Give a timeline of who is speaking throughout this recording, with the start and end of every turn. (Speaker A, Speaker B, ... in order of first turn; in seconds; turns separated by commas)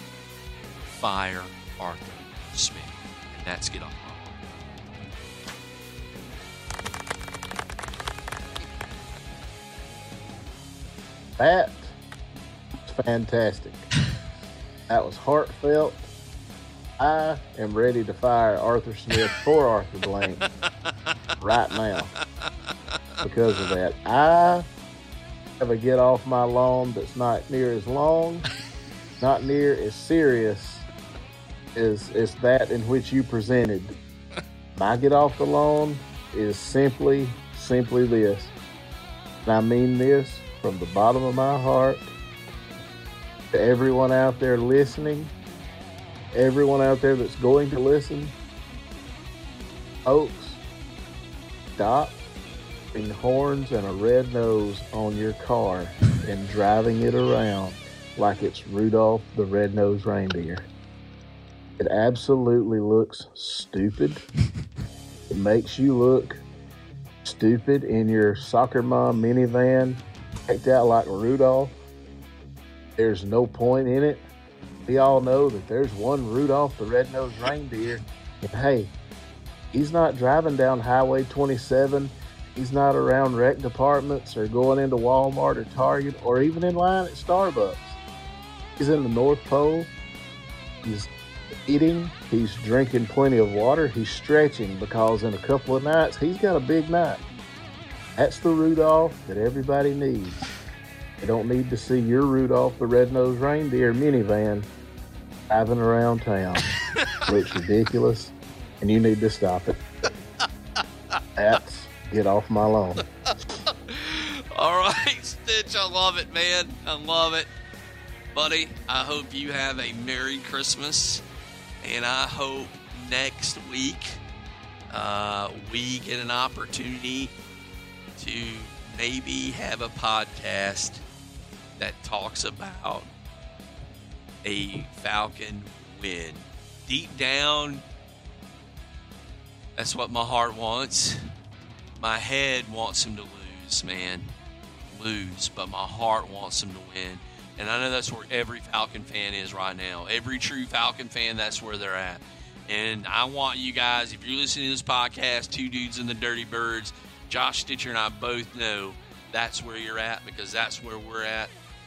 Speaker A: 0.8-4.4, Speaker B: 11.4-12.0, Speaker B: 12.8-13.9, Speaker B: 14.9-16.0, Speaker B: 17.0-20.4, Speaker B: 21.4-22.1, Speaker A: 23.2-23.7, Speaker B: 23.2-24.6, Speaker B: 25.6-28.4, Speaker B: 29.2-30.9, Speaker B: 31.8-34.0, Speaker B: 34.8-38.5, Speaker B: 39.5-42.1, Speaker B: 43.5-45.3, Speaker B: 46.3-48.4, Speaker B: 50.0-50.6, Speaker B: 51.8-52.2, Speaker B: 52.9-60.7, Speaker B: 61.8-64.2, Speaker B: 65.3-66.4, Speaker B: 67.2-71.8, Speaker B: 73.0-74.2, Speaker B: 74.9-78.9, Speaker B: 79.7-88.0, Speaker B: 88.8-89.9, Speaker B: 90.8-91.1, Speaker B: 91.7-97.2, Speaker B: 98.2-100.5, Speaker B: 101.2-104.7, Speaker B: 105.5-106.7, Speaker A: 106.8-107.2, Speaker B: 107.2-109.8, Speaker B: 111.4-113.0, Speaker A: 113.3-117.5, Speaker A: 118.3-121.2, Speaker A: 121.8-124.2, Speaker A: 124.9-127.3, Speaker A: 128.2-131.0, Speaker A: 131.8-133.1, Speaker A: 134.4-137.8, Speaker A: 139.8-141.2, Speaker A: 142.0-144.3, Speaker A: 144.9-161.5